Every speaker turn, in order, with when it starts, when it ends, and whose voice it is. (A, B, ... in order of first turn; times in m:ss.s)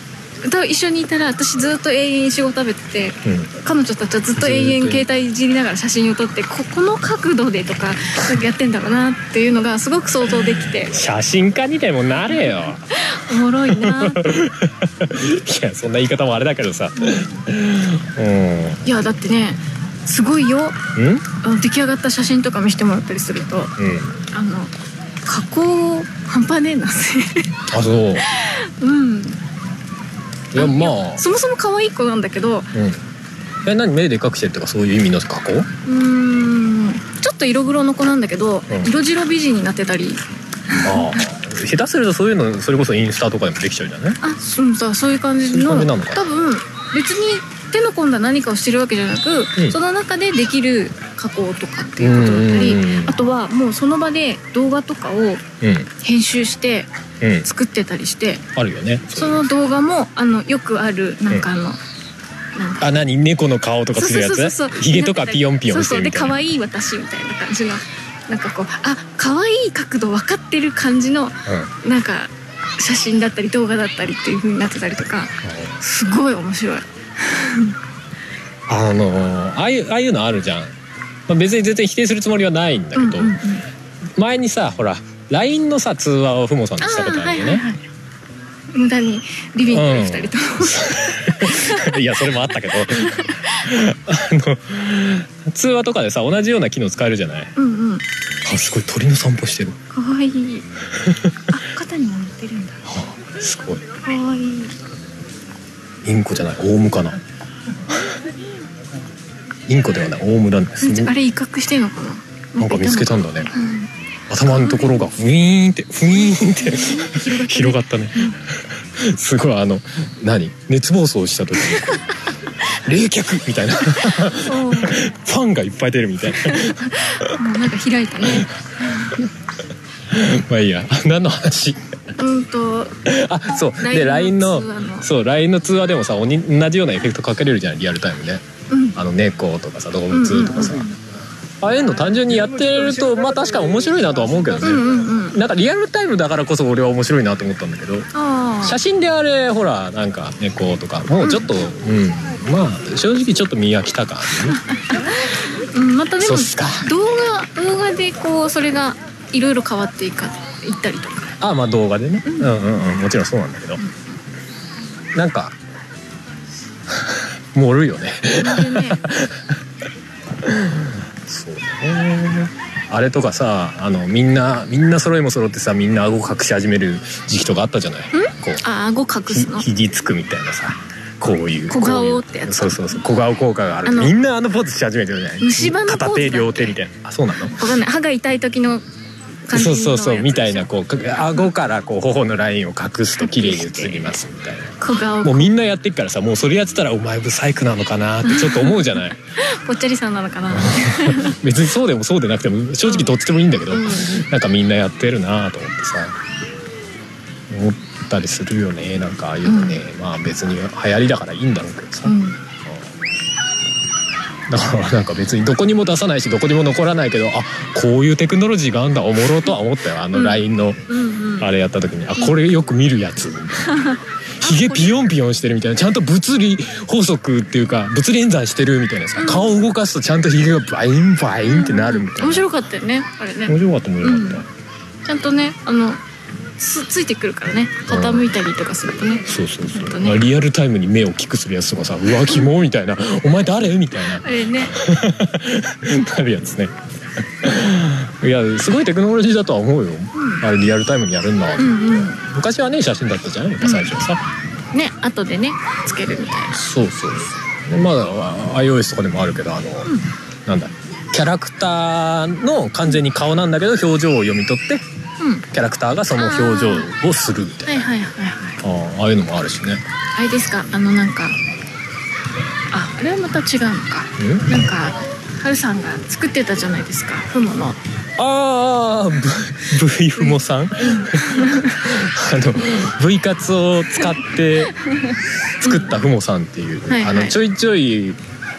0:00.4-0:11.0 A
0:03.2-0:03.5 B
0:04.4-0:05.0 B
0:10.9-0:12.9 B
0:12.3-0:14.3 A
0:13.6-0:18.8 B
0:17.0-0:17.4 A
0:18.8-0:20.8 A
0:21.0-0:21.2 B
0:21.4-0:23.7 A
0:23.8-0:24.2 B
0:24.3-0:24.7 A
0:25.2-0:27.6 A
0:27.7-0:28.3 B
0:28.2-0:29.4 A
0:30.5-0:31.2 B
0:30.5-0:32.7 A
0:32.7-0:33.0 B
0:33.6-0:35.7 B
0:35.8-0:41.2 A
0:40.7-0:44.2 B
0:44.2-0:55.4 A
0:45.4-0:46.2 B
0:52.0-0:53.2 B
0:55.6-0:55.9 B
0:56.0-0:56.9 A
0:57.2-0:57.5 B
0:57.4-0:58.4 A
0:58.6-0:59.4 B
0:59.1-1:01.8 A
1:02.5-1:02.9 A
1:02.8-1:06.4 B
1:03.9-1:17.8 A
1:11.5-1:11.7 B
1:15.4-1:15.8 B
1:18.7-1:20.7 B
1:21.3-1:23.4 B
1:22.9-1:23.6 A
1:24.2-1:27.6 B
1:26.8-1:27.8 A
1:28.7-1:32.0 A
1:29.7-1:37.5 B
1:32.9-1:33.5 A
1:37.6-1:38.0 A
1:38.4-1:39.8 B
1:39.9-1:40.6 A
1:41.5-1:42.8 A
1:42.9-1:43.8 B
1:44.0-1:44.8 A
1:46.0-1:47.2 B
1:49.7-1:51.1 B
1:50.8-1:53.9 A
1:52.6-1:53.5 B
1:54.3-2:02.2 B
1:54.5-1:55.0 A
1:56.1-1:58.4 A
2:01.7-2:02.0 A
2:02.7-2:06.8 B
2:04.0-2:05.0 A
2:06.3-2:09.1 A
2:10.1-2:11.8 B
2:12.2-2:13.0 A
2:13.0-2:20.9 B
2:13.8-2:15.1 A
2:18.7-2:19.0 A
2:20.1-2:21.0 A
2:21.6-2:28.1 B
2:24.6-2:25.4 A
2:28.1-2:28.8 A
2:28.6-2:34.6 B
2:31.2-2:31.5 A
2:34.5-2:41.4 A
2:36.2-2:36.9 B
2:41.4-2:43.8 B
2:42.2-2:42.7 A
2:43.8-2:44.2 A
2:45.1-2:45.6 B
2:46.9-2:49.4 B
2:48.4-2:49.1 A
2:50.4-2:58.6 B
2:58.1-2:59.6 A
2:59.3-3:07.6 B
3:01.7-3:02.9 A
3:03.8-3:04.1 A
3:05.4-3:06.8 A
3:07.4-3:08.8 A
3:09.4-3:10.7 A
3:09.5-3:19.2 B
3:13.2-3:14.2 A
3:14.8-3:15.5 A
3:18.2-3:21.4 A
3:20.5-3:26.1 B
3:22.8-3:23.1 A
3:23.7-3:24.2 A
3:27.5-3:32.1 B
3:29.4-3:29.8 A
3:32.0-3:32.4 A
3:34.5-3:40.8 B
3:40.1-3:41.5 A
3:41.4-3:52.5 B
3:43.7-3:45.0 A
3:49.2-3:49.5 A
3:51.4-3:54.4 A
3:53.4-3:54.4 B
3:55.0-3:56.0 A
3:56.6-4:00.2 A
3:57.8-3:58.3 B
3:59.2-4:06.7 B
4:02.2-4:02.5 A
4:04.0-4:04.8 A
4:07.4-4:14.2 B
4:10.1-4:10.4 A
4:11.6-4:12.2 A
4:13.6-4:13.9 A
4:14.7-4:16.6 A
4:16.5-4:24.8 B
4:25.2-4:25.4 A
4:25.5-4:27.8 B
4:26.1-4:26.9 A
4:27.6-4:28.6 A
4:28.6-4:29.8 B
4:30.1-4:31.4 A
4:32.7-4:37.8 A
4:34.2-4:34.5 B
4:38.2-4:44.8 B
4:40.2-4:42.0 A
4:44.8-4:46.0 A
4:45.6-4:48.2 B
4:46.9-4:47.4 A